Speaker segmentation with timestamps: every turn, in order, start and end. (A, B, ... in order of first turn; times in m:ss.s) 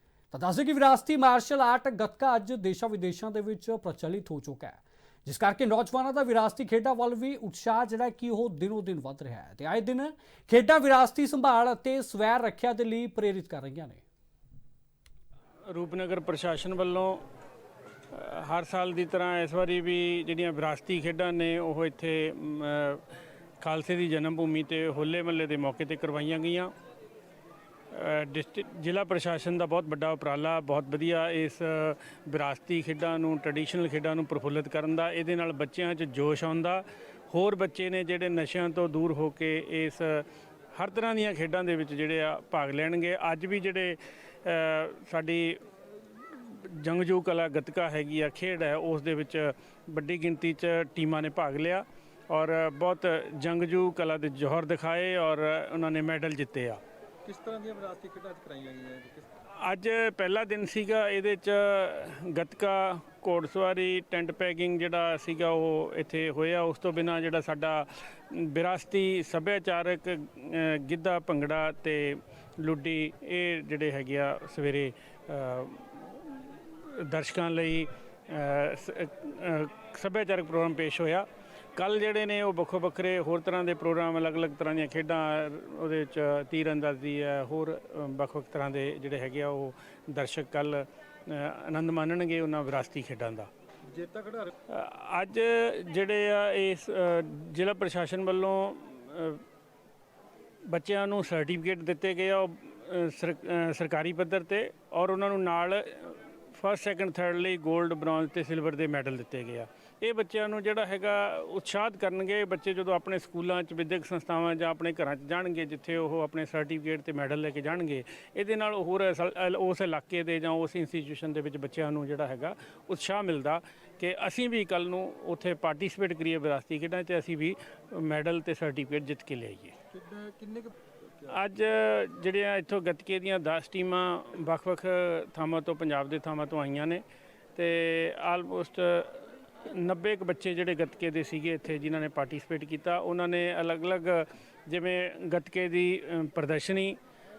0:00.3-0:14.0 A
0:15.7-0:17.2 B
0:18.1-0:23.0 B
0:23.6-0:26.7 B
0:27.9-0:56.8 B
0:57.2-0:59.3 C
0:59.5-1:33.5 B
1:33.9-1:34.5 C
1:34.7-1:39.4 B
1:40.7-2:09.8 B
2:09.9-2:10.7 C
2:11.3-2:17.0 B
2:17.5-2:27.0 B